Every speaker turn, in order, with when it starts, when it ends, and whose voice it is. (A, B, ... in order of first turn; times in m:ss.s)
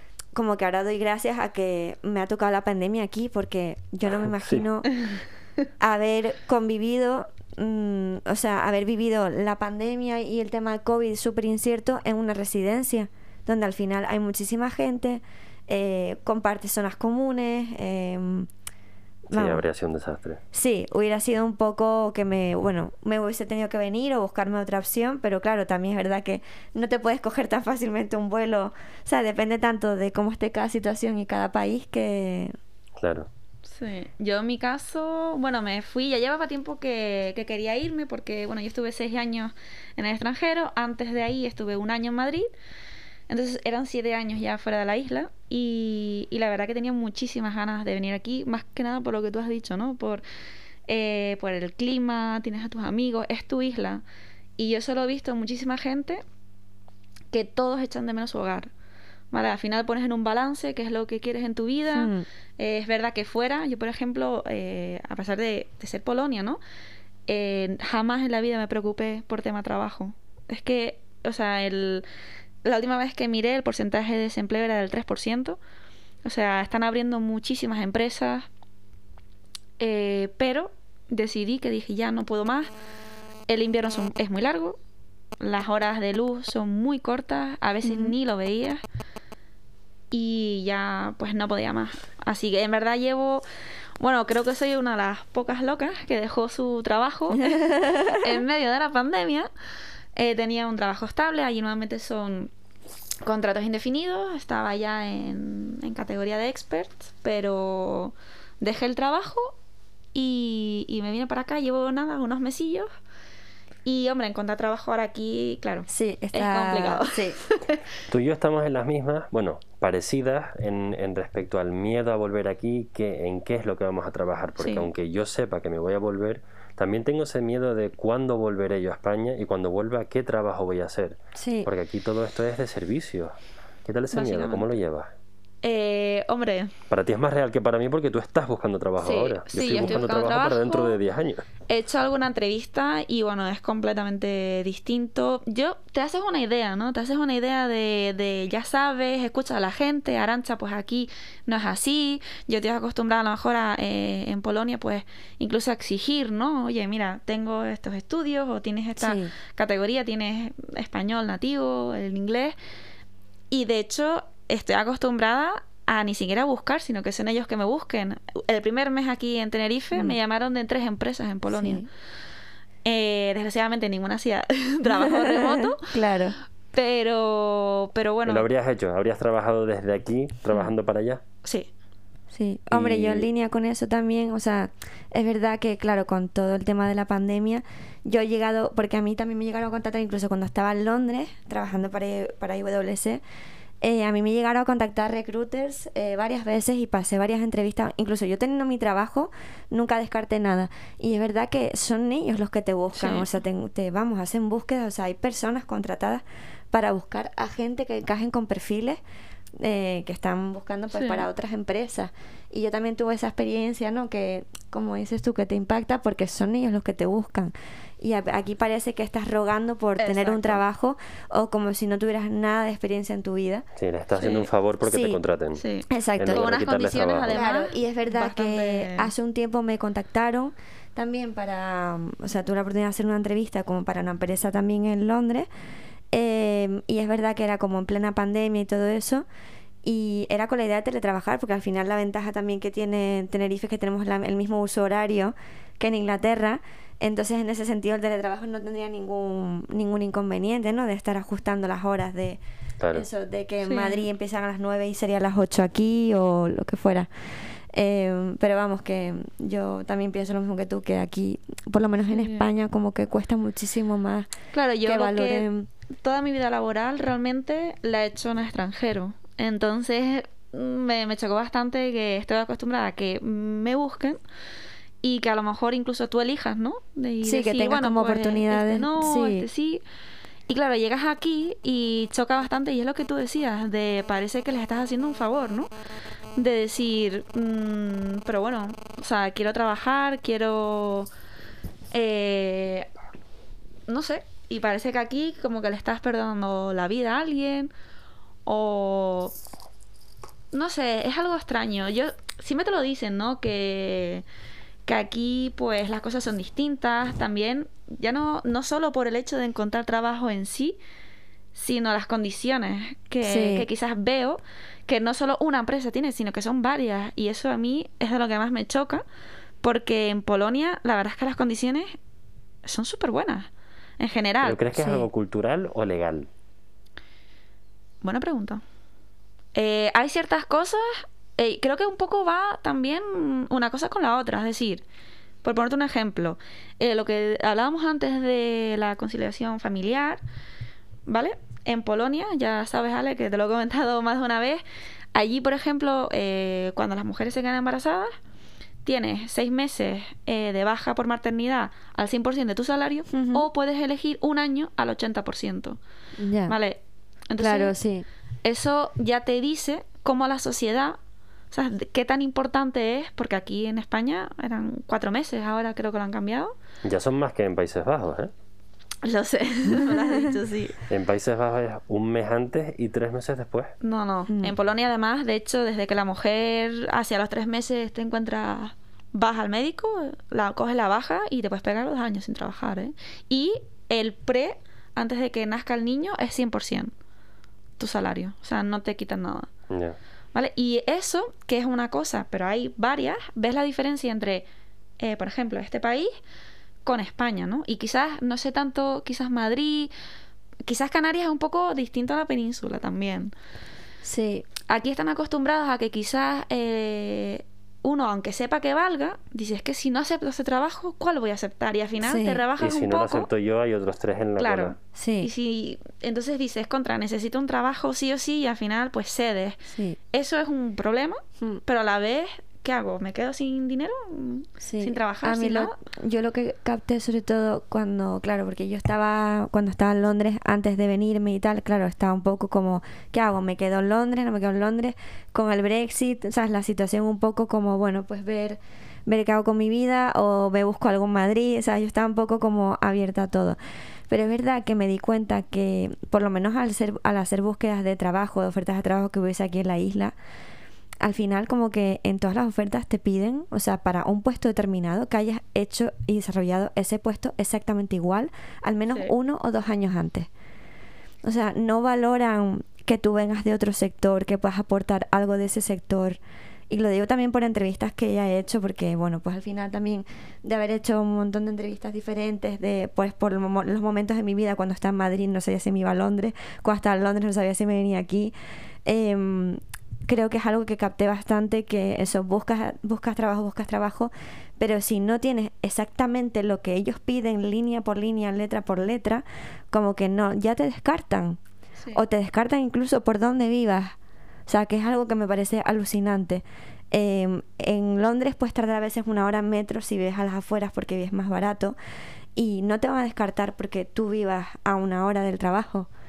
0:00.4-0:04.9 A
0:04.3-0:04.6 B
0:05.8-0:18.5 A
0:19.3-0:19.6 A
0:19.3-0:20.4 B
0:20.5-0:32.5 A
0:33.0-0:33.3 B
0:33.7-0:42.5 C
0:43.3-0:50.2 C
0:50.9-0:54.0 C
0:54.6-0:56.2 C
0:57.3-0:58.7 C
0:59.3-1:06.6 C
1:01.9-1:02.3 A
1:07.3-1:12.0 C
1:12.6-1:15.6 C
1:16.2-1:18.5 C
1:19.8-1:22.7 C
1:23.5-1:24.8 C
1:25.4-1:28.8 C
1:27.8-1:28.2 A
1:30.1-1:33.4 C
1:34.0-1:39.5 C
1:37.5-1:38.4 A
1:40.2-1:42.5 C
1:43.2-1:49.5 C
1:50.1-1:52.9 C
1:53.8-1:57.8 C
1:55.9-1:57.4 A
1:58.1-2:15.1 B
2:04.6-2:04.9 C
2:11.4-2:11.7 A
2:14.1-2:14.7 C
2:15.6-2:16.7 C
2:16.9-2:21.5 B
2:19.0-2:21.0 C
2:21.7-2:42.6 C
2:39.0-2:39.3 A
2:43.5-2:51.8 C
2:51.5-2:51.9 A
2:52.8-2:55.9 C
2:54.8-2:56.4 A
2:56.7-2:58.5 C
2:58.2-3:01.2 B
3:01.4-3:01.7 C
3:02.3-3:13.2 A
3:02.7-3:03.3 B
3:13.8-3:29.0 A
3:22.9-3:23.3 C
3:29.6-3:43.6 A
3:30.9-3:31.3 C
3:40.0-3:40.6 C
3:43.8-3:45.6 B
3:44.2-3:44.5 C
3:44.8-3:45.2 A
3:45.6-3:49.1 C
3:45.9-3:46.5 A
3:46.2-3:47.4 B
3:47.3-3:55.5 A
3:56.1-3:59.2 A
3:59.8-4:12.4 A
4:12.8-4:13.1 B
4:12.9-4:17.1 A
4:13.6-4:14.0 C
4:17.7-4:24.3 A
4:22.1-4:22.4 C
4:24.5-4:25.5 C
4:24.8-4:25.7 A
4:26.0-4:34.2 C
4:35.0-4:39.8 C
4:37.2-4:39.5 A
4:40.5-4:45.7 C
4:46.4-4:51.1 C
4:51.9-4:52.9 C
4:53.9-4:57.7 C
4:58.4-4:59.3 C
5:00.5-5:04.2 C
5:04.9-5:10.8 C
5:11.6-5:19.0 C
5:13.2-5:13.7 A
5:19.6-5:21.9 C
5:22.6-5:23.5 C
5:24.0-5:24.6 C
5:24.4-5:26.3 B
5:24.8-5:25.1 A
5:28.0-5:28.6 C
5:29.6-5:34.8 C
5:35.4-5:40.2 C
5:41.1-5:44.6 C
5:45.2-5:48.1 C
5:48.8-5:55.8 C
5:53.1-5:53.5 A
5:56.2-5:56.6 A
5:56.5-5:56.8 C
5:57.3-5:57.8 C
5:57.4-5:58.1 A
5:58.4-6:01.0 C
6:01.5-6:06.5 C
6:06.8-6:08.3 B
6:09.0-6:10.8 C
6:10.9-6:13.7 B
6:13.8-6:26.9 C
6:27.8-6:29.5 C
6:29.7-6:30.0 B
6:30.3-6:34.4 C
6:35.0-6:36.1 C
6:36.8-6:39.9 C
6:40.6-6:43.3 C
6:44.0-6:44.4 A
6:44.7-6:53.3 C
6:52.0-6:52.4 A
6:52.6-6:54.8 B
6:54.4-6:59.6 C
6:55.0-6:55.3 A
7:00.1-7:05.8 C
7:04.6-7:23.6 A
7:24.1-7:30.2 A
7:31.0-7:40.3 A
7:41.2-7:58.3 A
7:58.9-8:11.4 A
8:11.9-8:14.0 A
8:14.5-8:21.8 A
8:22.4-8:25.9 A